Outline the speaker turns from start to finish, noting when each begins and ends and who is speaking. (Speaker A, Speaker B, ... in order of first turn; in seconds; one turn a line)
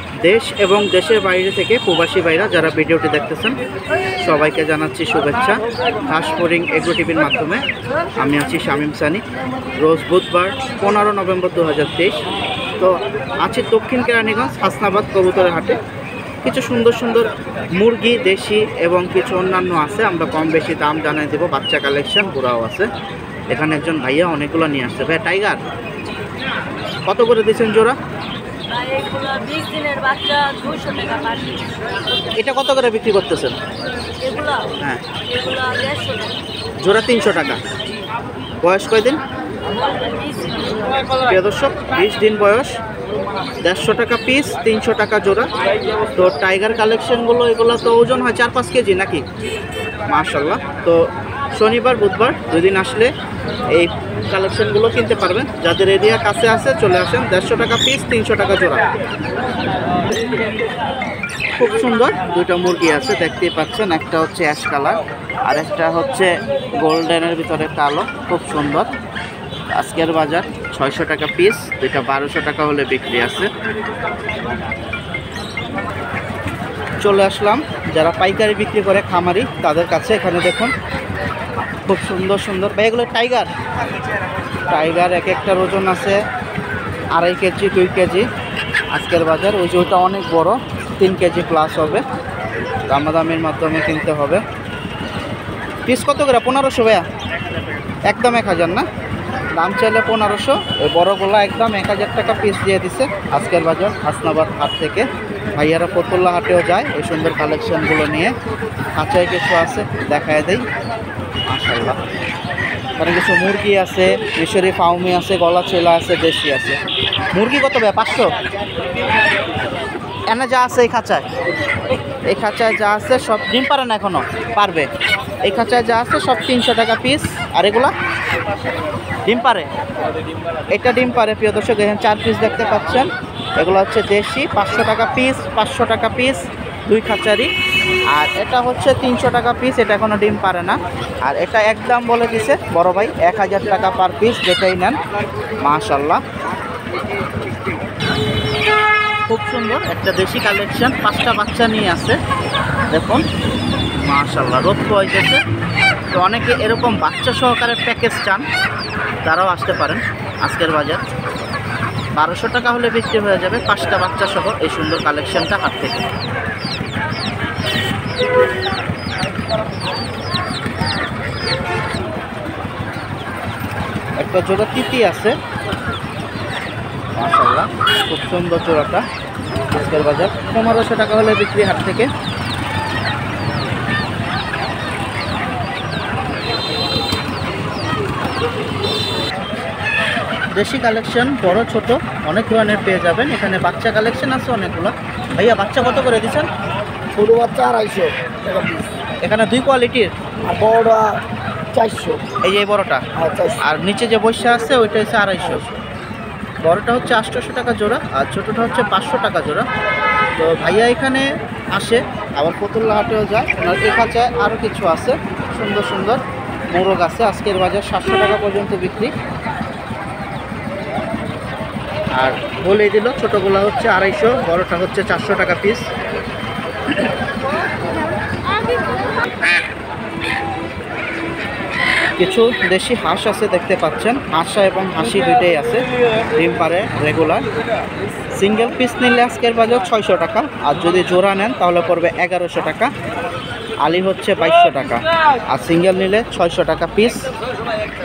Speaker A: 0.2-3.6
Speaker A: 4.2-7.6
Speaker A: 8.2-9.2
Speaker A: 9.8-12.2
Speaker A: 12.8-15.8
Speaker A: 16.4-22.9
Speaker A: 23.5-25.6
Speaker A: 27.1-28.0
Speaker B: 28.7-31.8
Speaker A: 32.4-33.6
Speaker B: 34.2-34.7
Speaker B: 35.3-36.4
Speaker A: 36.8-37.6
Speaker A: 38.6-39.2
Speaker B: 40.0-40.9
Speaker A: 41.2-42.8
Speaker A: 43.6-45.5
Speaker A: 46.1-49.2
Speaker A: 50.1-53.1
Speaker A: 53.7-58.9
Speaker A: 61.6-68.9
Speaker A: 69.7-73.5
Speaker A: 77.0-80.7
Speaker A: 81.9-83.5
Speaker A: 84.7-86.2
Speaker A: 87.1-88.3
Speaker A: 88.9-92.0
Speaker A: 92.9-94.4
Speaker A: 95.9-97.0
Speaker A: 98.1-98.9
Speaker A: 99.5-108.3
Speaker A: 109.0-110.6
Speaker A: 111.5-112.0
Speaker A: 113.0-116.8
Speaker A: 117.3-118.3
Speaker A: 120.3-121.3
Speaker A: 122.3-124.9
Speaker A: 125.4-127.9
Speaker A: 129.3-129.7
Speaker A: 130.7-137.5
Speaker A: 138.1-145.0
Speaker A: 145.6-146.2
Speaker A: 149.3-152.2
Speaker A: 152.9-153.2
Speaker A: 154.0-155.4
Speaker A: 156.1-158.4
Speaker A: 159.2-161.0
Speaker A: 162.2-166.1
Speaker A: 174.2-175.4
Speaker A: 177.2-179.0
Speaker A: 179.7-182.1
Speaker A: 190.6-196.5
Speaker C: 197.1-198.8
Speaker A: 199.2-200.1
Speaker C: 200.5-201.2
Speaker C: 201.7-202.2
Speaker A: 202.4-203.0
Speaker C: 203.2-203.6
Speaker A: 203.6-205.8
Speaker A: 206.6-209.7
Speaker A: 210.4-216.2
Speaker A: 216.7-219.1
Speaker A: 222.2-225.9
Speaker A: 232.2-237.4
Speaker A: 238.3-242.9
Speaker A: 243.8-247.3